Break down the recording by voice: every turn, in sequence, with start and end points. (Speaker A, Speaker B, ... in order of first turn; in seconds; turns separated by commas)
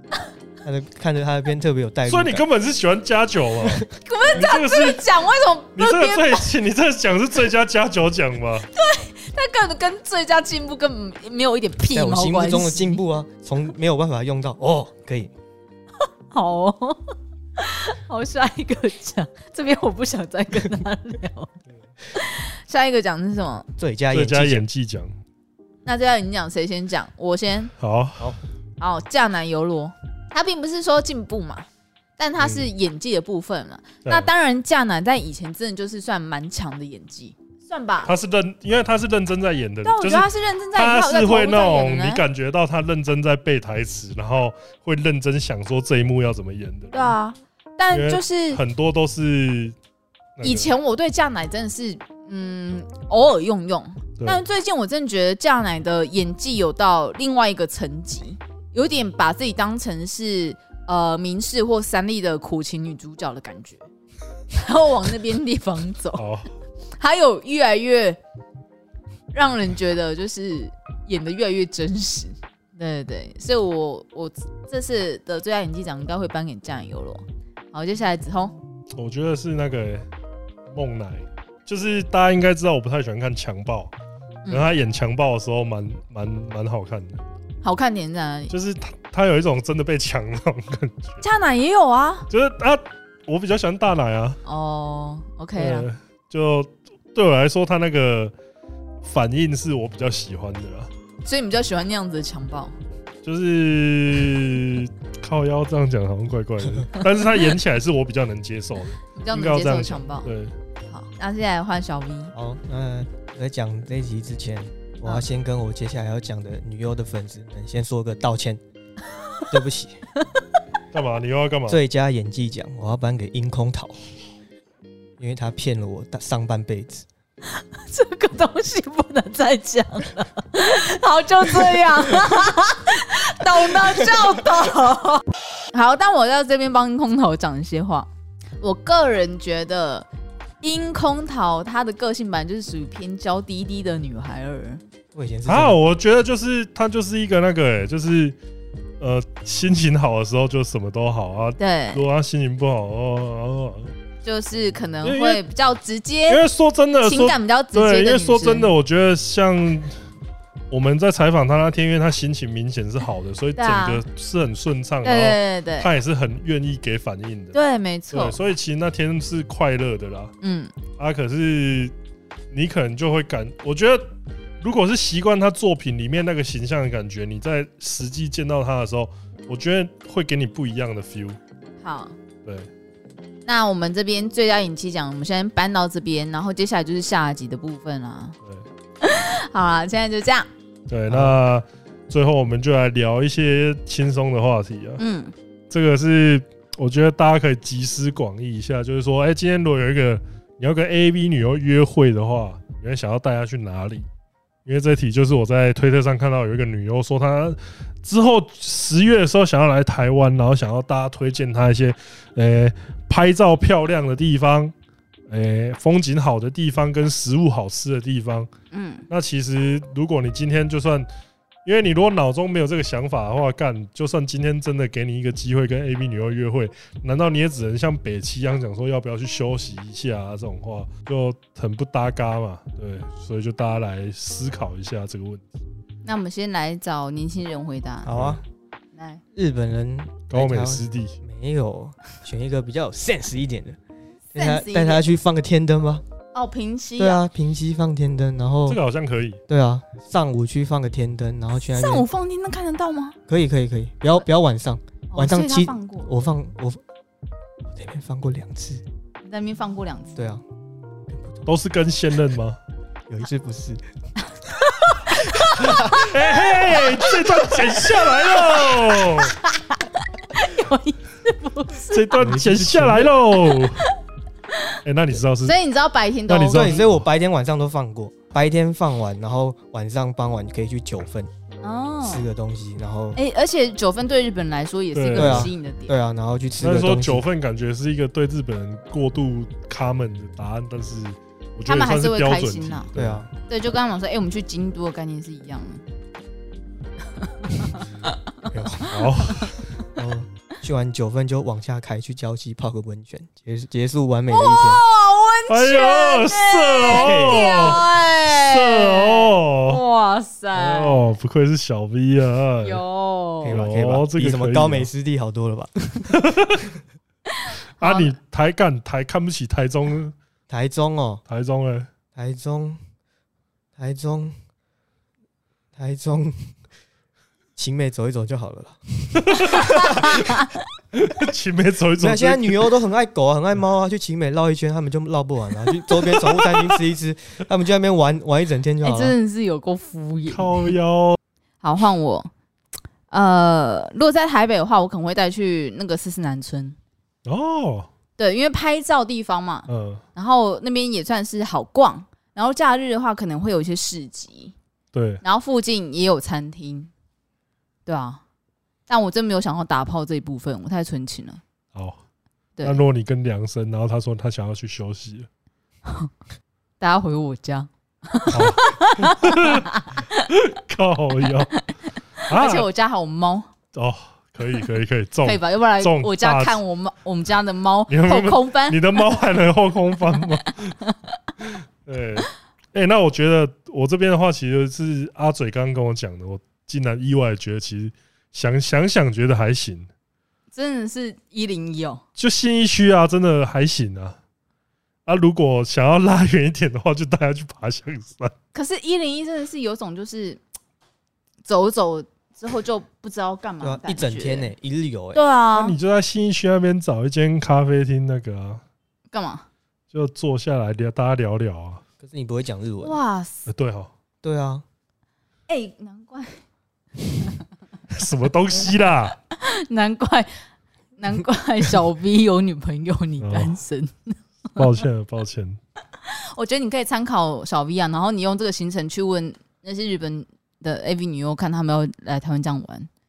Speaker A: 0.6-2.4, Speaker B: 2.0-5.0, Speaker C: 4.0-6.5, Speaker B: 5.7-8.7, Speaker C: 8.7-13.0, Speaker A: 11.9-15.3, Speaker C: 16.3-21.5, Speaker C: 22.1-23.7, Speaker A: 23.8-24.6, Speaker B: 24.1-25.1, Speaker C: 25.9-27.7, Speaker B: 27.8-28.4, Speaker C: 28.8-31.6, Speaker C: 32.2-38.1, Speaker B: 32.4-32.7, Speaker B: 34.0-34.3, Speaker B: 38.0-47.1, Speaker C: 39.8-42.2, Speaker C: 46.9-48.6, Speaker B: 47.9-49.8, Speaker B: 50.4-50.7, Speaker C: 50.4-63.8, Speaker B: 54.2-54.4, Speaker C: 64.5-66.2, Speaker B: 66.1-66.5, Speaker C: 67.0-68.2, Speaker C: 69.3-78.5, Speaker B: 78.9-80.0, Speaker B: 80.7-83.9, Speaker B: 84.5-87.2, Speaker C: 87.6-88.5, Speaker B: 88.5-91.2, Speaker C: 91.2-92.3, Speaker B: 92.3-94.4, Speaker C: 94.4-95.9, Speaker B: 95.5-98.3, Speaker B: 99.0-100.9, Speaker C: 101.2-102.7, Speaker B: 103.2-110.5, Speaker C: 109.2-110.3, Speaker C: 110.9-112.3, Speaker A: 112.3-118.6, Speaker A: 119.5-120.0, Speaker B: 120.9-121.8, Speaker A: 121.7-124.0, Speaker A: 125.2-127.0, Speaker C: 127.4-138.1, Speaker C: 138.6-140.1, Speaker C: 140.6-144.8, Speaker A: 145.1-145.8, Speaker B: 145.5-148.4, Speaker B: 149.0-153.9, Speaker C: 151.6-152.0, Speaker C: 154.2-156.4, Speaker B: 155.0-155.4, Speaker B: 156.3-159.9, Speaker C: 157.0-158.7, Speaker B: 160.7-167.6, Speaker C: 163.6-164.0, Speaker C: 165.0-165.9, Speaker C: 167.5-168.4, Speaker B: 168.1-170.3, Speaker C: 170.4-170.7, Speaker B: 171.0-171.9, Speaker B: 172.5-174.1, Speaker B: 174.6-181.4, Speaker C: 181.8-182.1, Speaker C: 183.4-188.3, Speaker C: 189.0-190.5, Speaker B: 190.9-195.0, Speaker A: 191.1-191.4, Speaker C: 195.0-195.3, Speaker B: 195.7-204.0, Speaker B: 204.6-214.7, Speaker B: 215.3-218.5, Speaker C: 218.7-219.1, Speaker B: 219.1-221.1, Speaker B: 221.6-235.5, Speaker C: 236.0-238.1, Speaker A: 238.0-238.4, Speaker B: 238.1-238.4, Speaker C: 238.9-239.2, Speaker A: 239.3-243.8, Speaker B: 240.3-241.2, Speaker A: 244.3-246.0, Speaker C: 244.3-245.0, Speaker C: 246.3-247.2, Speaker A: 247.0-248.8, Speaker B: 248.7-249.4, Speaker A: 249.5-252.1, Speaker C: 251.6-253.2, Speaker A: 253.3-256.8, Speaker C: 255.1-256.1, Speaker A: 257.7-258.8, Speaker C: 259.2-260.1, Speaker A: 260.1-260.4, Speaker A: 261.1-261.5, Speaker B: 261.4-262.6, Speaker A: 263.1-263.8, Speaker C: 264.4-272.2, Speaker B: 265.5-269.3, Speaker B: 271.9-273.8, Speaker A: 272.2-273.1, Speaker C: 273.3-273.9, Speaker B: 274.8-275.6, Speaker C: 275.4-276.8, Speaker B: 276.3-277.0, Speaker A: 276.5-281.3, Speaker C: 281.6-282.3, Speaker A: 282.0-283.2, Speaker C: 283.1-285.9, Speaker B: 284.9-285.5, Speaker A: 285.1-287.2, Speaker B: 286.6-293.3, Speaker C: 291.6-292.9, Speaker A: 292.9-293.3, Speaker C: 293.4-295.8, Speaker C: 297.2-298.2, Speaker A: 298.5-298.9, Speaker C: 298.7-299.2, Speaker B: 298.9-299.7, Speaker A: 299.9-304.8, Speaker C: 304.3-311.1, Speaker B: 305.5-309.8, Speaker A: 306.9-307.8, Speaker B: 310.5-312.8, Speaker C: 312.6-313.6, Speaker A: 313.4-316.2, Speaker B: 313.4-314.9, Speaker B: 316.1-316.6, Speaker C: 317.3-318.1, Speaker B: 317.8-320.1, Speaker A: 320.5-321.2, Speaker B: 321.3-321.9, Speaker A: 322.1-322.8, Speaker A: 323.8-324.4, Speaker A: 325.8-326.5, Speaker A: 327.6-330.0, Speaker B: 329.2-330.1, Speaker C: 329.6-330.6, Speaker B: 330.9-332.6, Speaker A: 332.0-339.1, Speaker C: 338.8-340.7, Speaker B: 340.3-341.2, Speaker C: 341.6-342.3, Speaker C: 343.1-346.8, Speaker B: 347.2-347.9, Speaker C: 348.2-354.5, Speaker B: 349.7-350.0, Speaker B: 354.9-355.2, Speaker C: 355.2-356.9, Speaker C: 357.9-358.2, Speaker C: 358.9-361.4, Speaker B: 361.7-362.0, Speaker C: 362.6-362.8, Speaker B: 362.6-365.3, Speaker C: 366.8-370.2, Speaker B: 368.3-371.5, Speaker C: 372.2-373.5, Speaker B: 372.3-372.6, Speaker B: 373.7-376.6, Speaker C: 375.2-379.2, Speaker B: 377.9-380.8, Speaker C: 380.5-380.9, Speaker B: 381.4-389.9, Speaker C: 390.5-392.0, Speaker B: 392.2-394.2, Speaker B: 395.1-398.3, Speaker C: 398.5-400.4, Speaker C: 401.4-404.5, Speaker A: 403.6-405.2, Speaker C: 405.1-405.8, Speaker B: 405.5-408.6, Speaker C: 409.1-409.4, Speaker B: 409.9-411.8, Speaker A: 412.0-413.0, Speaker C: 412.8-413.5, Speaker B: 413.5-413.9, Speaker A: 414.2-414.6, Speaker C: 415.5-416.4, Speaker C: 417.0-417.4, Speaker B: 417.9-419.2, Speaker C: 419.3-420.3, Speaker C: 421.0-424.8, Speaker B: 423.2-423.6, Speaker B: 424.6-425.6, Speaker C: 426.0-432.9